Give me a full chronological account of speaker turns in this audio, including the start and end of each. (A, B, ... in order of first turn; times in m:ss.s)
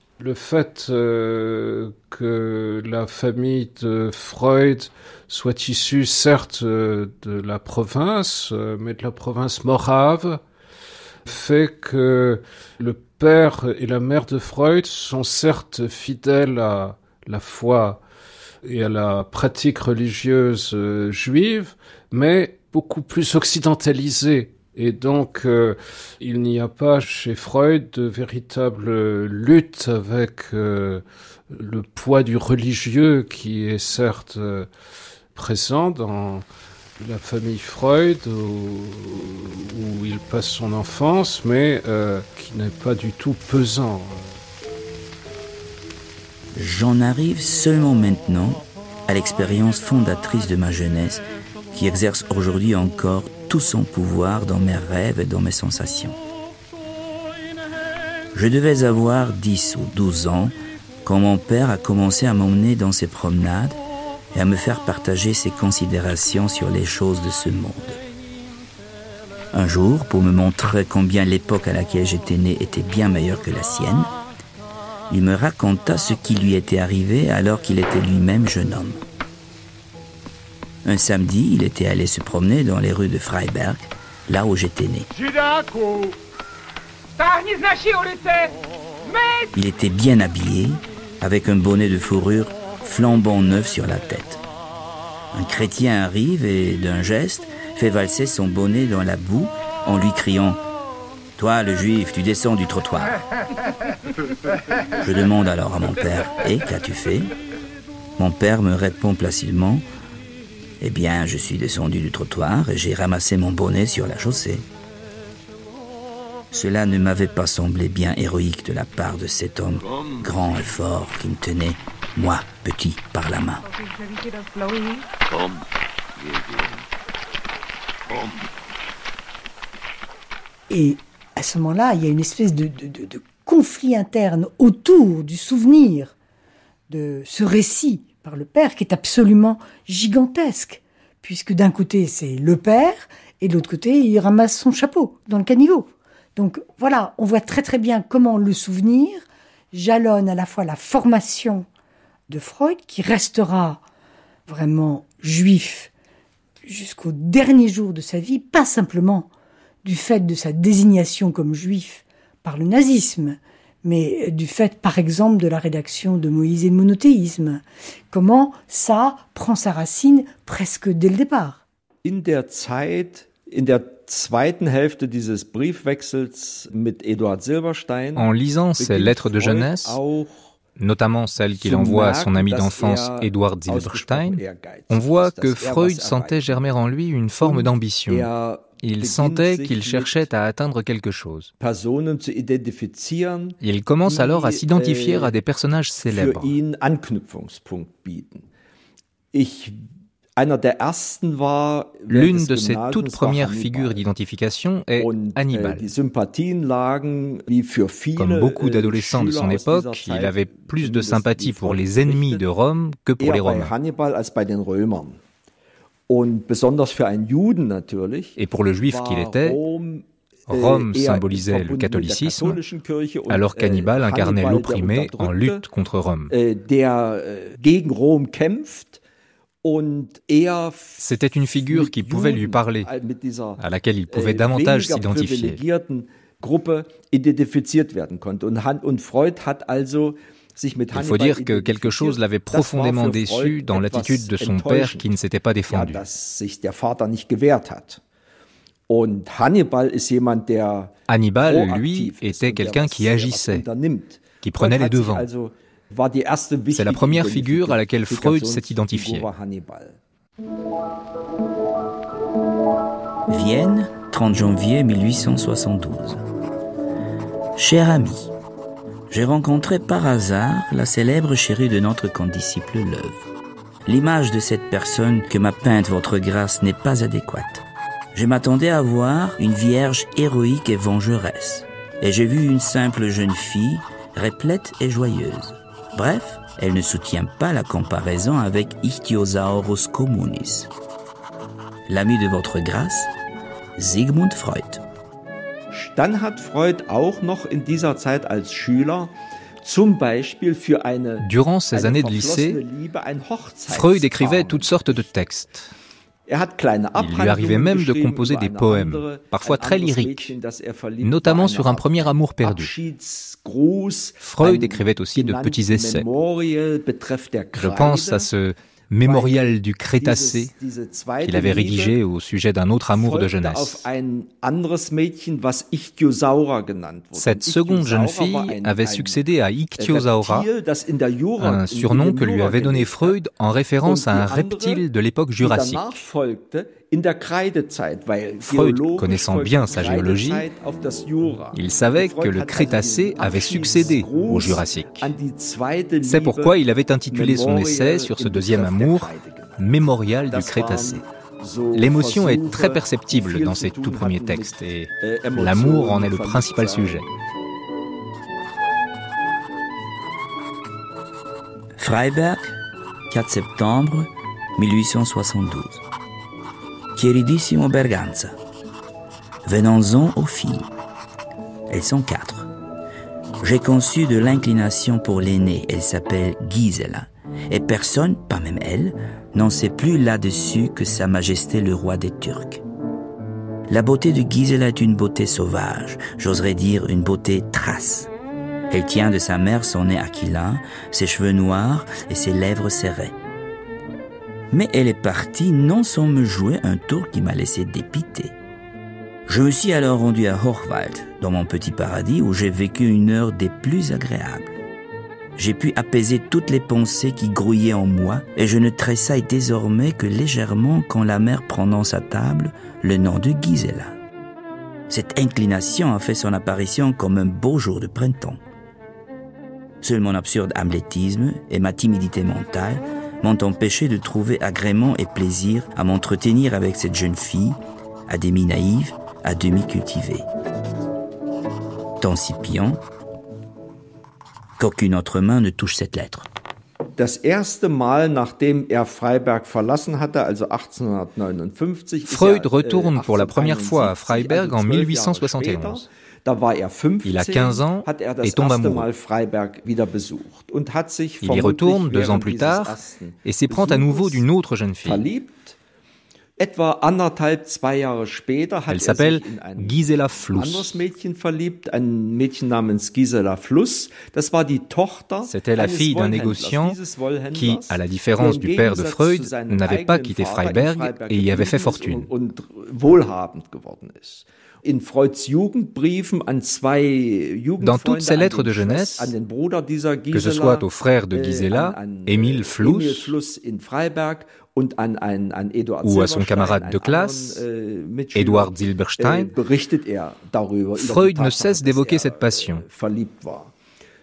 0:00.2-0:10.4 A
0:11.2-0:18.0 A
0:18.6-0:34.7 A
0:35.3-0:36.4 A
0:37.0-0:44.4 A
0:46.5-0:56.2 B
0:58.3-1:03.8 B
1:04.3-1:08.0 B
1:09.5-1:14.1 B
1:15.1-1:19.0 B
1:20.8-1:25.1 B
1:29.5-1:34.4 B
1:35.3-1:40.6 B
1:41.4-1:43.2 B
1:45.0-1:47.3 B
1:48.2-1:49.8 B
1:50.8-1:54.7 B
1:56.5-2:03.6 B
2:10.7-2:16.1 C
2:16.9-2:31.6 C
2:32.3-2:33.8 C
2:34.5-2:35.9 C
2:36.6-2:39.3 C
2:39.8-2:51.6 C
2:52.0-3:00.5 D
2:58.2-3:00.0 E
3:00.8-3:11.5 E
3:01.6-3:06.6 D
3:07.4-3:10.1 D
3:11.6-3:15.3 D
3:13.6-3:16.6 E
3:16.0-3:18.4 D
3:19.3-3:19.8 D
3:20.4-3:24.0 D
3:22.1-3:25.9 E
3:25.0-3:32.4 D
3:28.2-3:33.7 E
3:33.2-3:35.2 D
3:36.1-3:45.6 D
3:38.4-3:39.6 E
3:40.5-3:42.6 E
3:43.3-3:46.3 E
3:46.3-3:49.0 D
3:49.6-3:53.6 D
3:51.0-3:52.9 E
3:53.6-3:55.6 E
3:54.1-4:05.1 D
4:00.9-4:06.0 E
4:05.7-4:08.0 D
4:08.9-4:20.0 D
4:11.1-4:13.6 E
4:14.4-4:15.3 E
4:16.7-4:19.3 E
4:23.3-4:26.2 B
4:27.6-4:28.3 B
4:29.1-4:33.3 B
4:33.8-4:50.7 B
4:51.9-4:53.1 B
4:53.8-4:54.8 B
4:55.7-5:05.0 D
5:01.2-5:02.6 E
5:03.7-5:05.7 E
5:06.3-5:18.2 D
5:07.0-5:10.4 E
5:11.0-5:12.7 E
5:14.2-5:16.1 E
5:17.5-5:20.5 E
5:19.0-5:21.9 D
5:21.2-5:23.8 E
5:22.9-5:29.2 D
5:27.1-5:30.5 E
5:29.8-5:33.1 D
5:31.4-5:36.0 E
5:33.8-5:34.8 D
5:35.4-5:46.6 D
5:38.4-5:40.5 E
5:41.5-5:45.1 E
5:46.0-5:51.0 E
5:47.1-5:49.6 D
5:50.3-5:57.0 D
5:51.7-5:57.1 E
6:01.8-6:02.6 B
6:03.1-6:05.8 B
6:07.0-6:08.4 B
6:09.4-6:10.7 B
6:11.7-6:12.5 B
6:13.4-6:22.6 B
6:23.7-6:28.1 B
6:28.7-6:33.1 B
6:34.5-6:38.3 B
6:39.3-6:44.6 B
6:45.4-6:54.0 B
6:54.9-6:58.4 B
6:59.8-7:10.3 B
7:12.0-7:12.8 B
7:14.6-7:16.3 B
7:17.0-7:34.2 D
7:22.0-7:25.9 E
7:27.0-7:28.9 E
7:31.2-7:35.1 E
7:34.8-7:35.6 D
7:36.4-8:00.6 D
7:38.7-7:40.7 E
7:45.2-7:52.1 E
7:57.6-7:59.1 E
8:00.1-8:03.1 E
8:01.1-8:13.5 D
8:05.8-8:07.4 E
8:08.1-8:09.3 E
8:10.7-8:12.6 E